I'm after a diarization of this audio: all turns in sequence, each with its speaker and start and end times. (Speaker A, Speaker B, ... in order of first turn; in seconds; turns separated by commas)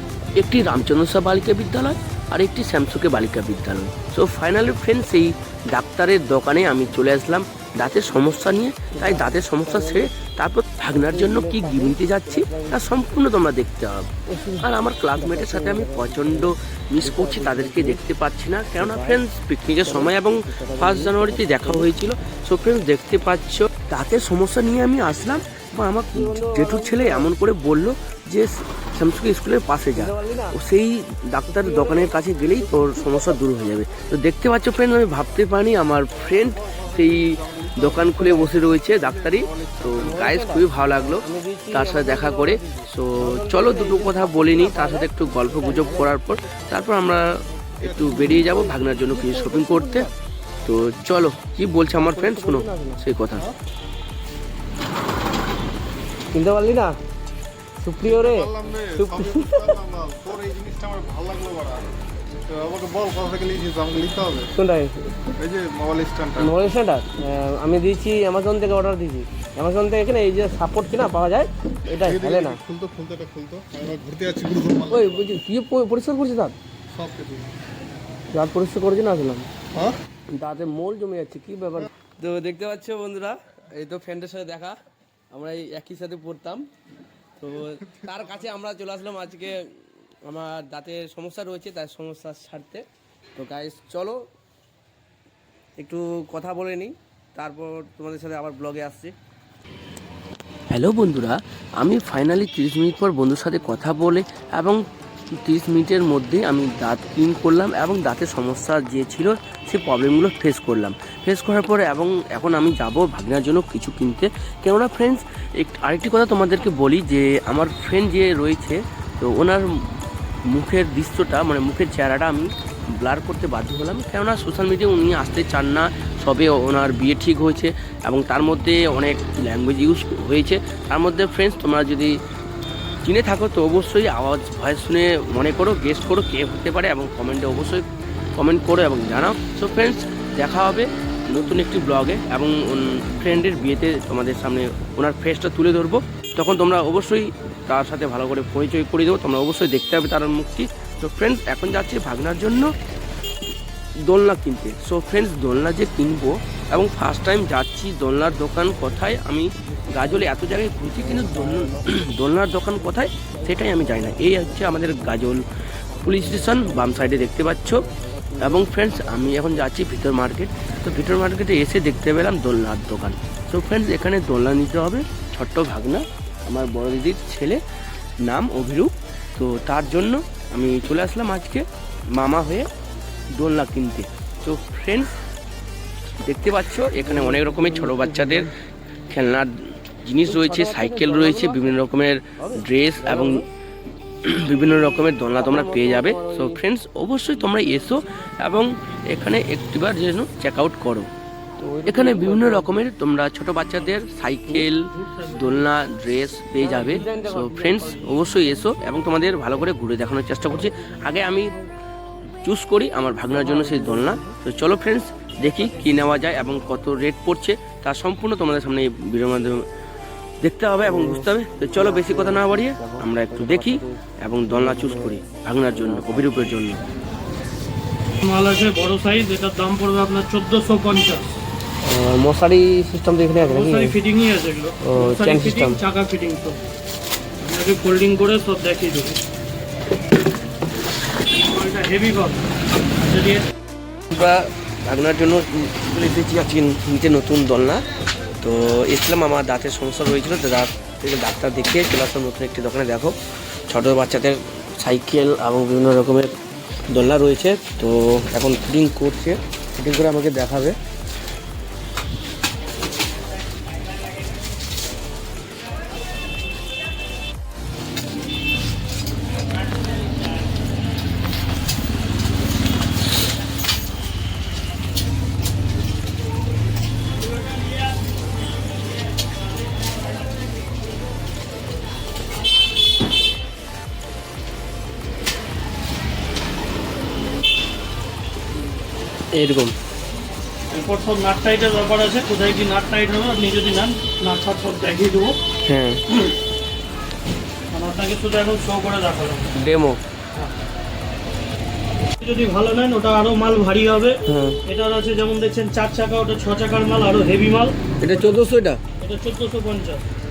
Speaker A: 0.4-50.1, Speaker B: 8.9-10.1, Speaker B: 10.9-12.8, Speaker B: 14.3-18.0, Speaker B: 18.8-19.2, Speaker B: 19.8-21.9, Speaker B: 26.1-27.3, Speaker B: 29.9-30.6, Speaker B: 31.5-33.4, Speaker C: 36.4-40.3, Speaker B: 38.2-38.5, Speaker B: 40.0-46.1, Speaker C: 47.8-48.9, Speaker B: 48.2-50.1, Speaker A: 50.6-53.5, Speaker B: 52.0-53.0, Speaker B: 56.3-57.0, Speaker B: 57.8-59.8, Speaker C: 58.0-61.9, Speaker C: 62.5-64.5, Speaker B: 64.5-65.3, Speaker C: 65.3-66.6, Speaker B: 66.3-72.6, Speaker C: 72.0-75.4, Speaker B: 74.9-76.5, Speaker C: 76.9-77.5, Speaker B: 78.3-79.5, Speaker B: 80.4-84.7, Speaker B: 85.3-86.7, Speaker B: 87.4-89.6, Speaker B: 90.2-92.8, Speaker B: 93.4-94.2, Speaker B: 95.8-99.1, Speaker A: 100.7-104.8, Speaker A: 105.4-119.7, Speaker A: 120.5-132.1, Speaker A: 133.0-137.8, Speaker A: 138.4-152.7, Speaker A: 154.0-165.4, Speaker B: 161.0-161.8, Speaker B: 163.2-164.9, Speaker B: 166.0-169.4, Speaker A: 166.0-167.8, Speaker A: 168.4-177.6, Speaker A: 178.2-182.7, Speaker A: 183.3-185.1, Speaker A: 186.2-188.6, Speaker B: 187.0-188.5, Speaker A: 189.1-193.5, Speaker B: 190.2-191.8, Speaker B: 192.4-193.4, Speaker A: 194.2-201.1, Speaker B: 195.3-196.6, Speaker B: 201.6-202.8, Speaker A: 201.8-211.6, Speaker D: 204.9-205.5, Speaker B: 206.6-208.9, Speaker A: 212.4-219.6, Speaker B: 213.3-214.3, Speaker A: 220.4-226.8, Speaker B: 220.8-224.0, Speaker B: 224.5-226.3, Speaker D: 228.2-231.4, Speaker A: 231.8-233.3, Speaker B: 233.3-233.9, Speaker D: 233.3-236.6, Speaker A: 234.8-235.8, Speaker D: 237.4-239.2, Speaker D: 241.4-242.4, Speaker D: 242.9-243.5, Speaker A: 244.1-247.8, Speaker A: 248.4-253.2, Speaker A: 253.7-256.3, Speaker A: 256.9-260.8, Speaker D: 279.2-280.4, Speaker A: 289.3-289.8, Speaker D: 290.7-295.4, Speaker A: 295.6-296.2, Speaker D: 297.7-299.5, Speaker A: 299.6-300.0, Speaker D: 302.2-308.4, Speaker A: 304.3-304.6, Speaker A: 308.0-308.8, Speaker D: 309.0-310.0